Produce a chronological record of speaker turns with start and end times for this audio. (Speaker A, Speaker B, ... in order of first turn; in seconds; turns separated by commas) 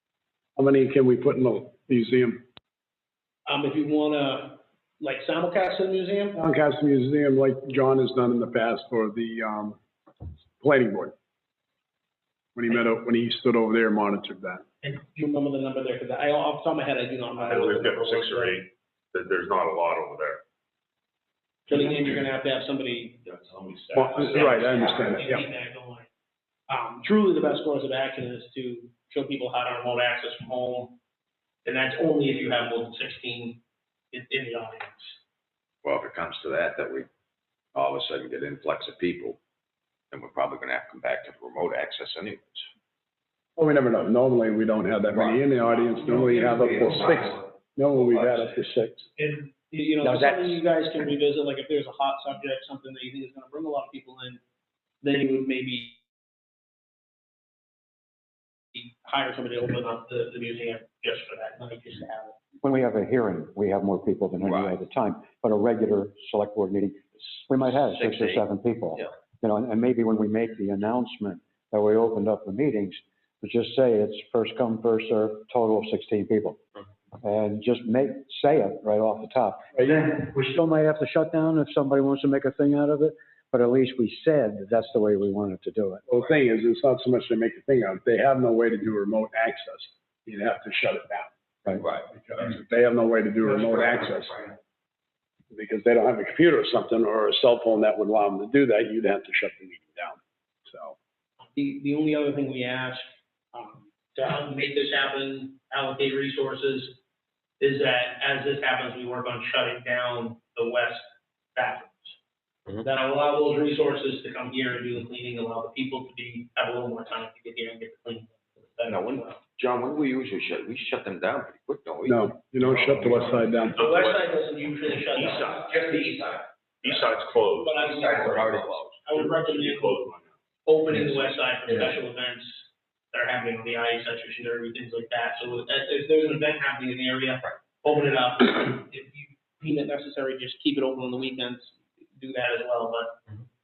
Speaker A: 0.6-2.5, Speaker B: 3.5-6.4, Speaker A: 6.4-9.8, Speaker A: 10.6-11.1, Speaker A: 12.6-14.7, Speaker B: 14.8-18.6, Speaker C: 17.4-20.4, Speaker B: 21.7-23.2, Speaker C: 21.8-22.2, Speaker C: 23.2-25.2, Speaker A: 23.9-25.4, Speaker B: 24.2-26.1, Speaker B: 26.7-31.0, Speaker B: 31.6-33.6, Speaker B: 34.1-35.2, Speaker D: 35.8-37.1, Speaker D: 37.8-39.4, Speaker D: 40.1-42.7, Speaker A: 43.6-49.1, Speaker D: 46.0-47.3, Speaker B: 49.2-54.4, Speaker B: 55.0-56.0, Speaker B: 58.7-62.4, Speaker E: 62.6-76.6, Speaker D: 64.4-64.8, Speaker D: 67.2-68.4, Speaker E: 77.2-86.1, Speaker A: 86.1-94.4, Speaker A: 95.5-101.0, Speaker B: 101.6-107.0, Speaker B: 107.6-112.2, Speaker B: 112.8-119.4, Speaker D: 118.9-122.2, Speaker A: 122.0-123.9, Speaker C: 122.8-124.2, Speaker B: 123.7-126.2, Speaker C: 125.1-125.6, Speaker D: 125.6-126.4, Speaker C: 126.8-128.2, Speaker B: 127.6-128.5, Speaker D: 127.8-128.9, Speaker B: 129.1-130.0, Speaker C: 129.1-130.3, Speaker B: 130.7-143.2